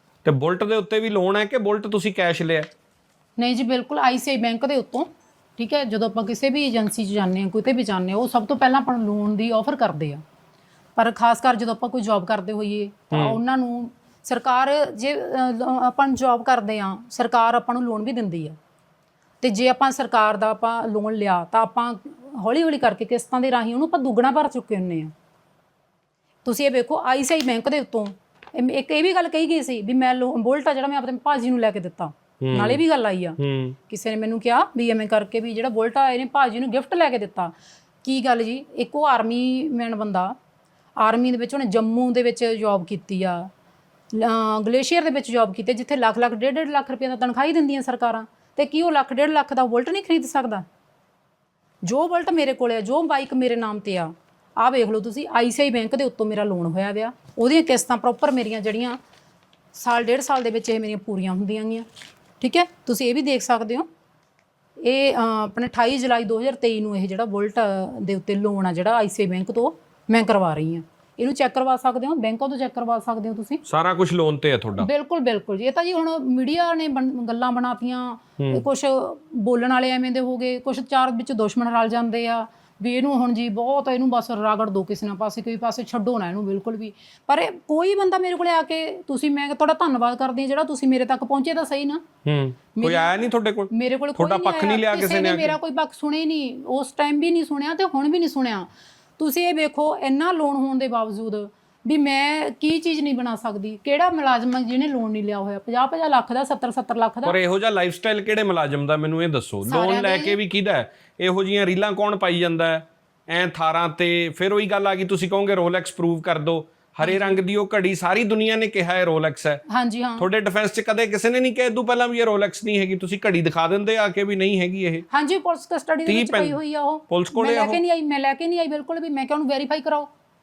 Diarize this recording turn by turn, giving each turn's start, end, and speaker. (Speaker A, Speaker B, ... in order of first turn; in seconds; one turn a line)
Speaker A: 0.2-2.7
Speaker B: 3.4-10.2
Speaker B: 11.0-18.6
Speaker A: 13.1-13.4
Speaker B: 19.4-25.1
Speaker B: 26.4-33.4
Speaker A: 32.4-32.8
Speaker A: 33.4-33.8
Speaker B: 33.9-40.4
Speaker B: 41.0-43.5
Speaker B: 44.1-50.7
Speaker B: 51.8-59.0
Speaker B: 59.7-61.9
Speaker B: 62.4-63.9
Speaker B: 64.8-73.6
Speaker A: 73.7-74.9
Speaker B: 74.8-92.0
Speaker A: 92.2-95.6
Speaker B: 92.8-93.1
Speaker B: 93.7-107.4
Speaker A: 107.2-119.6
Speaker B: 109.7-110.4
Speaker B: 117.0-117.4
Speaker B: 119.7-120.3
Speaker A: 120.2-125.0
Speaker B: 125.1-130.1
Speaker A: 126.1-126.6
Speaker A: 127.1-127.8